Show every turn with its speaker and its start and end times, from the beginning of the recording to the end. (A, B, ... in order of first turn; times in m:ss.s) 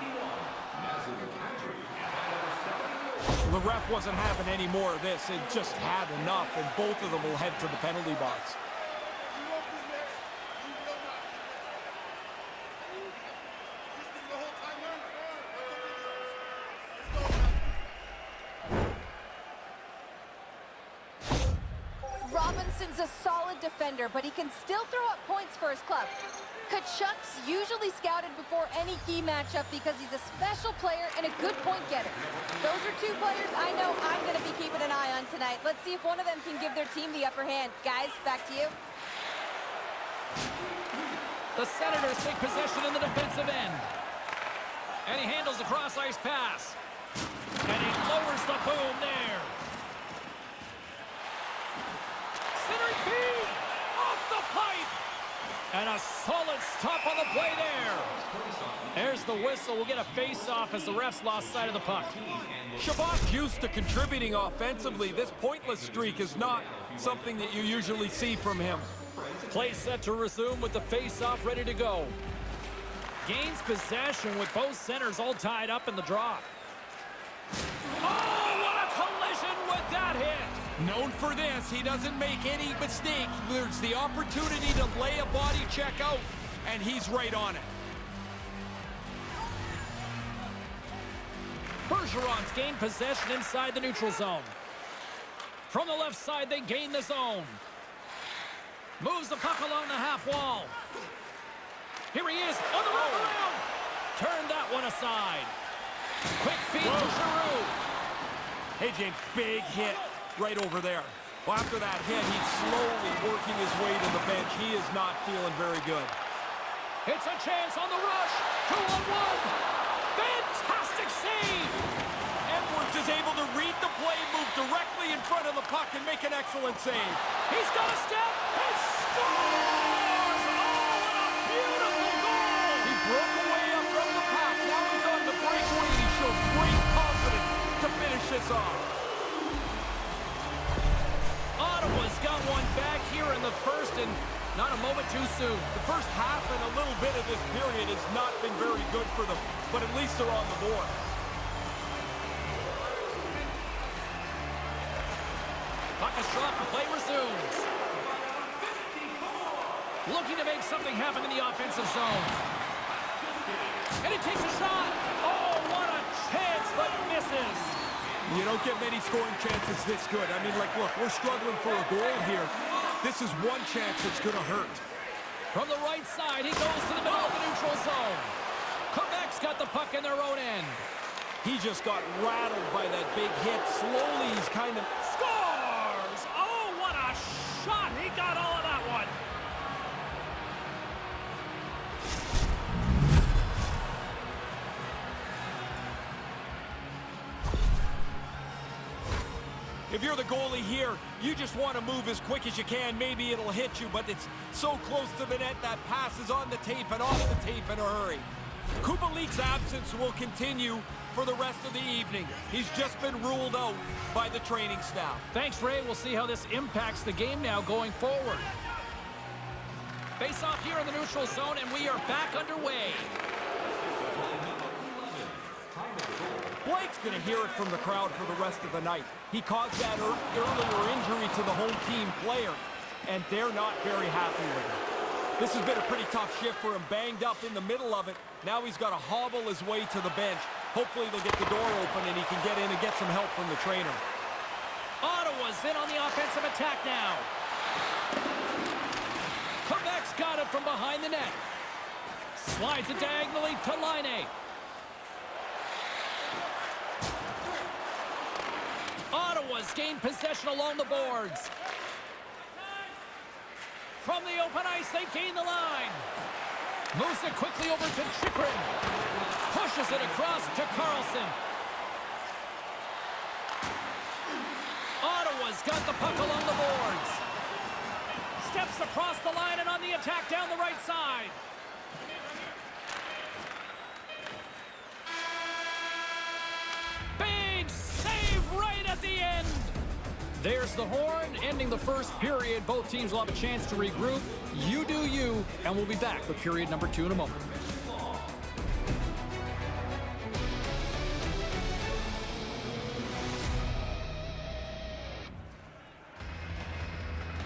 0:03.3-0:08.6 A
0:22.2-0:26.2 B
0:26.7-0:38.8 B
0:41.6-0:43.9 C
0:45.1-0:46.8 C
0:47.7-0:49.6 C
0:52.6-0:55.0 C
0:55.7-0:58.2 C
0:58.9-1:02.2 C
1:02.7-1:09.0 A
1:09.5-1:12.2 C
1:13.2-1:16.5 C
1:18.0-1:20.6 C
1:20.8-1:27.7 A
1:31.9-1:34.6 C
1:35.7-1:37.6 C
1:39.0-1:40.8 C
1:42.1-1:43.6 C
1:42.9-1:43.4 A
1:44.2-1:45.5 C
1:46.4-1:47.8 C
1:46.8-1:47.2 A
1:48.8-1:56.2 A
1:57.0-1:59.6 C
2:00.2-2:01.8 C
2:02.5-2:07.2 A
2:07.5-2:13.0 C
2:12.8-2:18.9 A
2:21.6-2:25.8 C
2:25.7-2:31.0 A
2:36.0-2:37.7 C
2:40.0-2:42.4 C
2:44.0-2:47.8 C
2:48.2-2:54.8 A
2:55.5-2:58.4 C
2:58.9-3:00.8 C
3:01.4-3:04.9 A
3:05.0-3:09.2 C
3:19.9-3:28.3 A
3:28.8-3:35.2 A
3:35.3-3:38.5 C
3:40.2-3:43.2 C
3:46.6-3:54.8 A
3:55.4-4:04.0 A
4:05.0-4:07.3 C
4:09.6-4:11.4 C
4:12.4-4:14.3 C
4:19.1-4:21.5 C
4:24.0-4:26.1 C
4:26.9-4:28.8 C
4:29.5-4:31.4 C
4:35.0-4:37.2 C
4:38.4-4:41.4 C
4:47.2-4:49.8 C
4:50.4-4:57.5 C